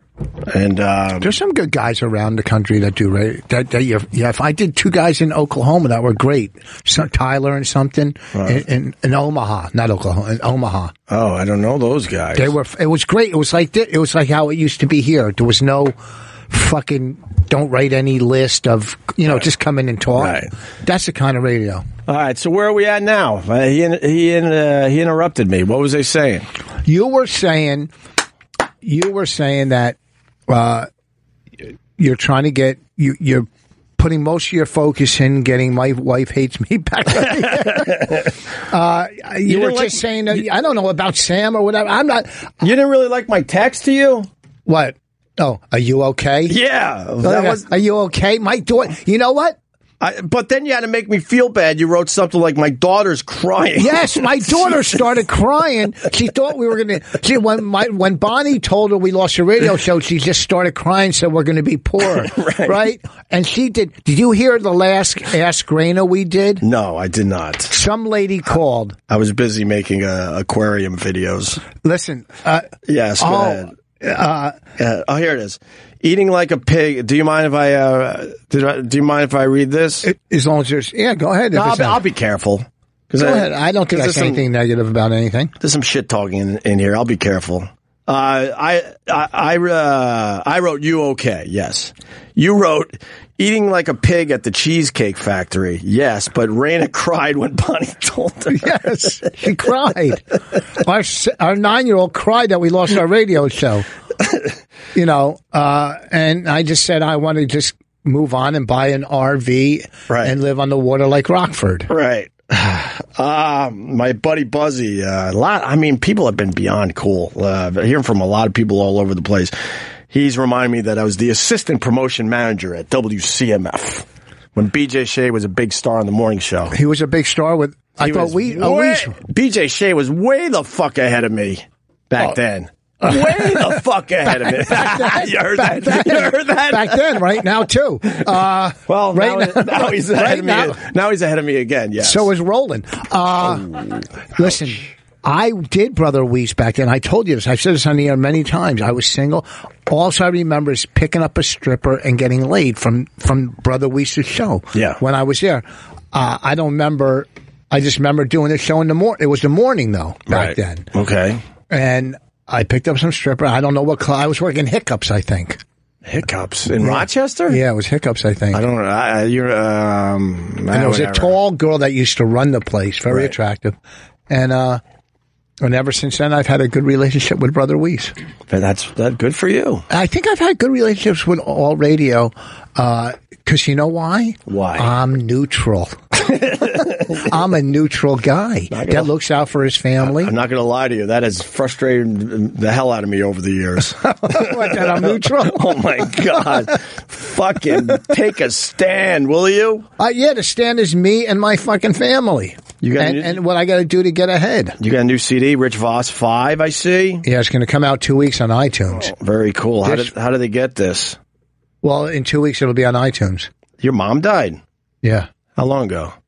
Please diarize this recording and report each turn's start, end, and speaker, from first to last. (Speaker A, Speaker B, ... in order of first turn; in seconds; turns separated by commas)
Speaker A: 0.5-1.3, Speaker B: 1.2-10.9, Speaker A: 8.3-8.6, Speaker A: 11.1-12.5, Speaker B: 12.3-15.9, Speaker B: 16.5-21.8, Speaker A: 20.2-20.5, Speaker A: 22.1-26.4, Speaker B: 26.8-27.9, Speaker B: 28.8-29.9, Speaker B: 30.5-30.9, Speaker B: 32.0-42.5, Speaker A: 37.5-38.3, Speaker A: 39.5-40.4, Speaker A: 42.6-44.3, Speaker B: 44.6-46.6, Speaker A: 46.5-47.7, Speaker B: 47.2-49.6, Speaker A: 50.0-55.0, Speaker B: 53.8-66.6, Speaker A: 62.0-62.8, Speaker A: 66.6-67.7, Speaker B: 67.7-69.0, Speaker A: 69.1-71.6, Speaker B: 71.8-72.7, Speaker A: 72.8-73.7, Speaker B: 73.2-74.6, Speaker A: 74.8-80.0, Speaker B: 80.0-82.0, Speaker A: 81.5-84.4, Speaker B: 83.2-85.5, Speaker A: 85.6-99.1, Speaker B: 98.5-100.2, Speaker B: 100.8-103.9, Speaker B: 104.9-111.9, Speaker A: 110.1-110.3, Speaker A: 111.9-119.5, Speaker A: 120.1-126.7, Speaker B: 126.7-129.2, Speaker A: 128.0-137.4, Speaker B: 133.0-140.8, Speaker A: 138.9-142.3, Speaker B: 142.0-143.8, Speaker B: 144.3-160.9, Speaker A: 154.7-155.0, Speaker A: 160.3-161.4, Speaker B: 161.7-165.6, Speaker A: 166.0-167.6, Speaker B: 166.8-168.6, Speaker A: 168.5-171.4, Speaker B: 170.7-173.7, Speaker B: 174.3-174.8, Speaker B: 175.6-178.1, Speaker A: 178.5-179.8, Speaker B: 179.9-185.9, Speaker A: 184.5-184.9, Speaker A: 186.2-187.2, Speaker B: 187.1-190.3, Speaker A: 188.7-189.1, Speaker A: 190.0-199.8, Speaker B: 194.0-196.2, Speaker B: 200.0-204.8, Speaker A: 202.8-203.4, Speaker A: 204.8-207.2, Speaker B: 207.2-209.1, Speaker A: 208.9-211.2, Speaker B: 209.8-210.1, Speaker B: 211.8-213.5, Speaker A: 213.8-214.6, Speaker B: 215.0-215.3, Speaker A: 215.6-216.1